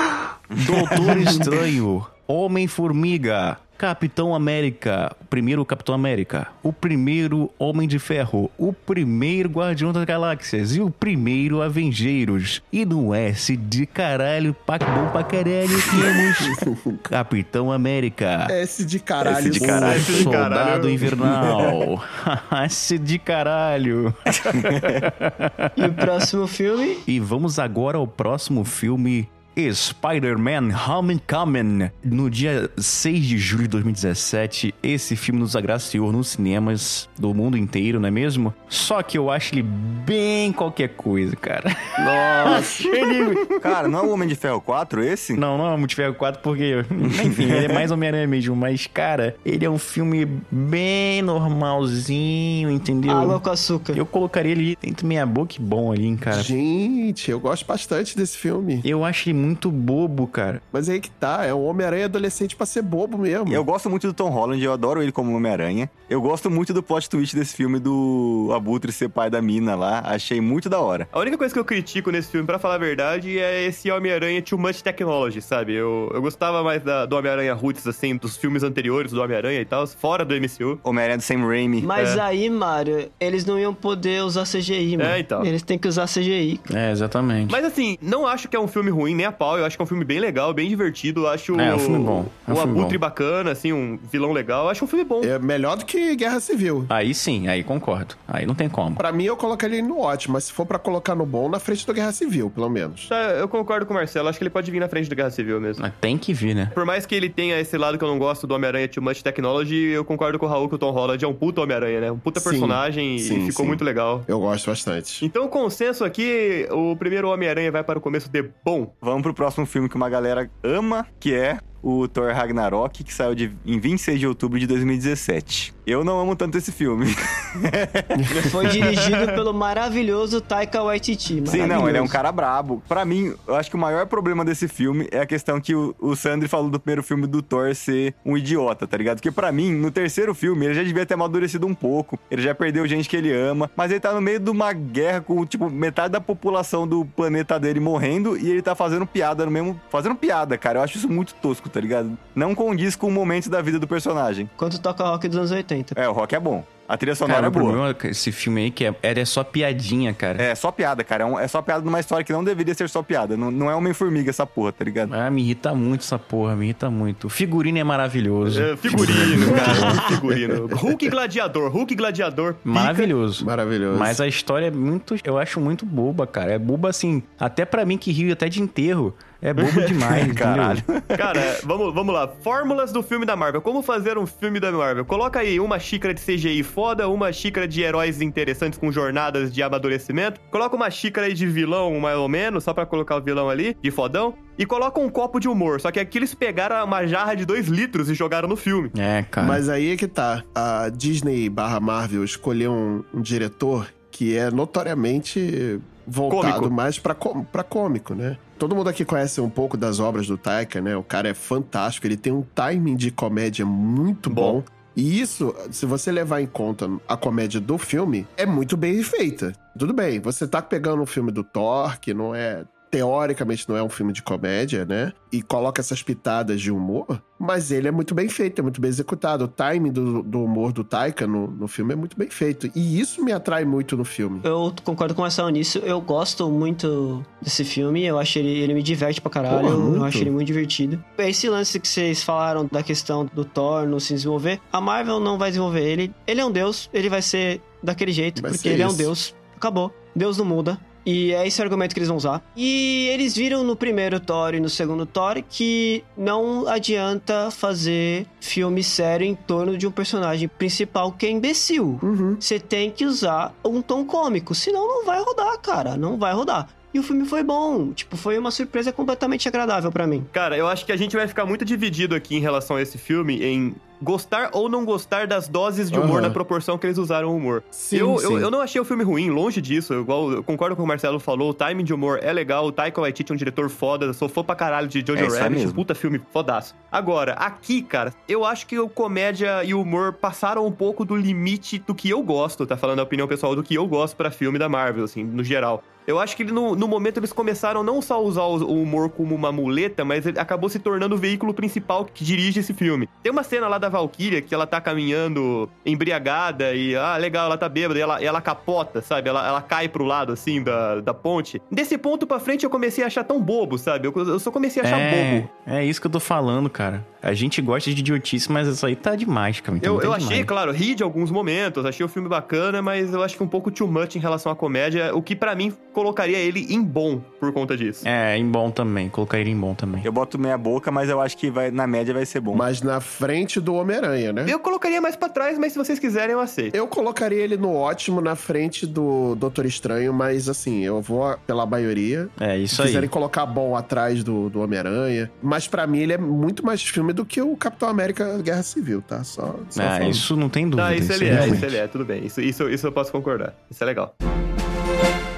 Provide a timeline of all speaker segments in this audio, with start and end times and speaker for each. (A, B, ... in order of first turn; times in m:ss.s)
0:00.5-0:01.4 A
0:00.6-0:18.5 B
0:16.6-0:17.0 C
0:18.5-0:20.3 C
0:19.2-0:20.1 A
0:19.8-0:21.0 D
0:19.9-0:25.7 B
0:24.5-0:25.0 A
0:25.8-0:27.0 E
0:27.0-0:41.9 B
0:42.0-0:43.0 C
0:42.6-0:43.4 B
0:43.6-0:45.4 A
0:45.4-0:53.4 B
0:47.4-0:47.8 A
0:53.0-0:54.0 E
0:53.9-0:56.5 B
0:56.3-0:58.8 C
0:58.8-1:00.6 B
1:00.7-1:03.6 C
1:03.5-1:11.1 A
1:11.1-1:20.8 D
1:20.8-1:21.8 A
1:21.8-1:26.6 E
1:21.9-1:22.2 D
1:25.0-1:25.5 D
1:26.7-1:27.6 B
1:27.5-1:35.3 D
1:31.6-1:33.0 B
1:35.2-1:36.9 C
1:36.9-1:39.0 B
1:39.0-1:43.1 C
1:43.1-1:45.8 D
1:45.8-1:46.7 B
1:46.7-1:54.2 D
1:52.3-1:55.2 C
1:55.2-1:58.9 D
1:59.0-2:08.4 A
2:08.3-2:12.2 E
2:09.0-2:09.4 D
2:11.4-2:34.5 A
2:34.6-2:36.0 E
2:35.9-2:37.8 A
2:37.2-2:40.4 B
2:40.4-2:45.1 A
2:45.1-2:50.0 B
2:48.4-2:53.0 D
2:49.4-2:50.0 A
2:52.6-3:00.8 B
2:53.4-2:54.2 C
3:00.2-3:01.4 A
3:01.2-3:18.9 D
3:18.9-3:19.6 B
3:19.4-3:54.4 C
3:26.3-3:26.7 D
3:34.3-3:34.6 D
3:54.4-4:30.3 E
3:59.5-4:00.3 C
4:08.4-4:09.1 C
4:22.0-4:22.4 C
4:30.3-5:15.5 D
4:35.9-4:36.4 C
4:37.7-4:38.5 C
4:45.1-4:45.8 A
5:14.8-5:20.5 B
5:19.8-5:28.0 D
5:28.0-5:30.1 B
5:30.0-5:32.6 A
5:32.5-5:34.5 C
5:34.4-5:36.7 D
5:36.7-5:50.2 C
5:42.4-5:43.1 B
5:49.7-5:51.8 B
5:50.8-5:54.1 D
5:51.3-5:51.6 C